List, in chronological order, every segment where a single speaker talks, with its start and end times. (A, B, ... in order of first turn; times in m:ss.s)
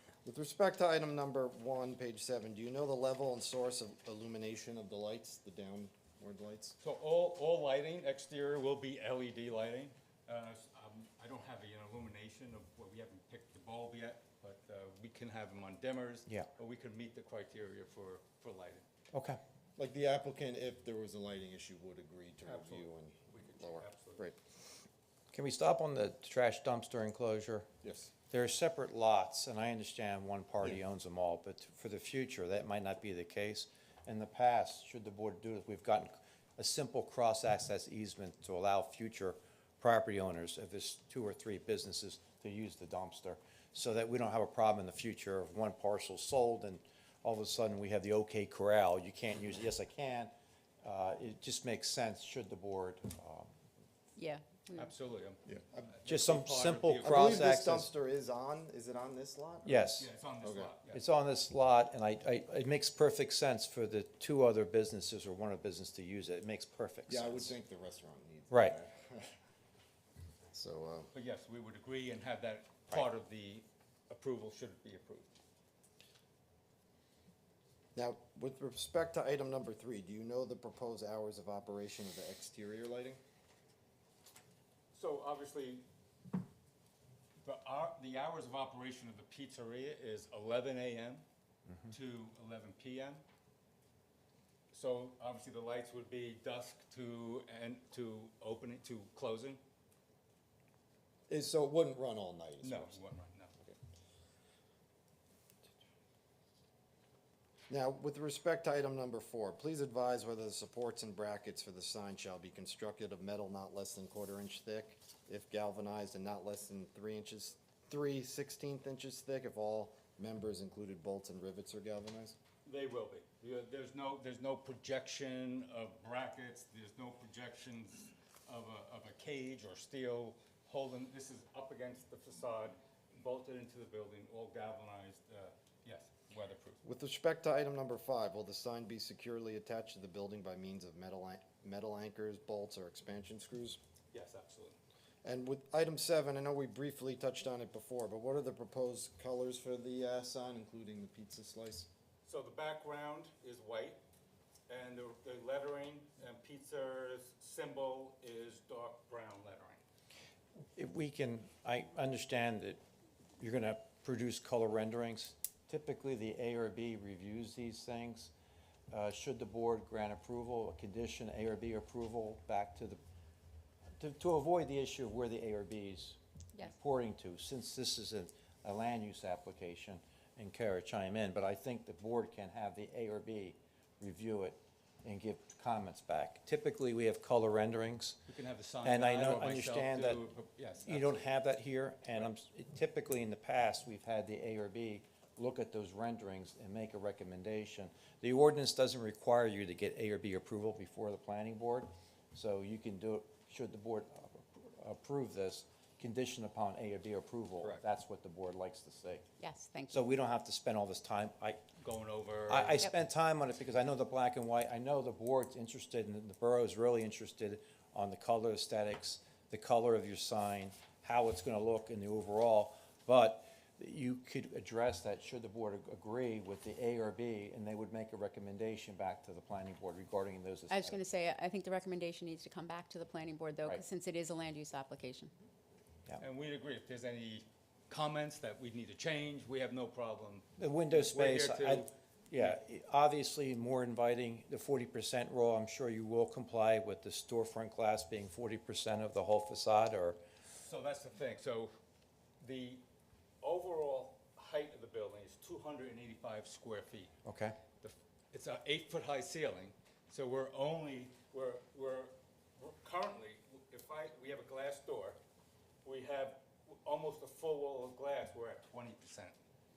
0:00.2-0:06.8 A
0:06.8-0:18.8 B
0:19.1-0:19.4 C
0:19.8-0:24.4 A
0:22.4-0:24.2 B
0:25.3-0:27.7 C
0:27.8-0:28.1 A
0:28.3-0:50.3 C
0:50.8-0:53.5 C
0:54.2-0:54.9 D
0:54.8-0:57.4 B
0:55.5-0:55.9 A
0:56.1-0:57.9 C
0:57.0-1:00.7 A
0:59.7-1:00.1 C
1:00.0-1:01.0 B
1:00.9-1:07.5 C
1:07.1-1:09.3 A
1:08.5-1:08.8 C
1:10.5-1:11.1 A
1:11.1-1:15.3 B
1:18.0-1:23.2 A
1:24.9-1:25.8 B
1:27.4-1:31.2 B
1:31.9-1:33.2 B
1:34.7-1:39.6 B
1:41.3-1:43.0 A
1:42.6-1:43.5 B
1:47.7-2:02.4 A
2:02.6-2:16.8 B
2:16.8-2:23.8 A
2:24.1-2:24.8 B
2:25.2-2:31.9 A
2:32.2-2:34.0 B
2:34.7-2:39.8 B
2:40.8-2:42.8 C
2:43.4-2:48.3 C
2:48.9-2:53.0 C
2:54.0-3:08.2 C
3:08.3-3:11.3 B
3:08.8-3:10.2 C
3:10.9-3:29.3 C
3:29.4-3:30.0 D
3:29.9-3:31.6 C
3:31.8-3:32.8 B
3:32.5-3:51.0 C
3:50.7-3:55.3 D
3:56.2-4:02.6 B
4:00.6-4:10.2 C
4:10.5-4:11.7 B
4:12.4-4:12.8 B
4:13.4-4:17.1 B
4:17.2-4:17.6 C
4:17.8-4:25.2 B
4:25.8-4:29.4 B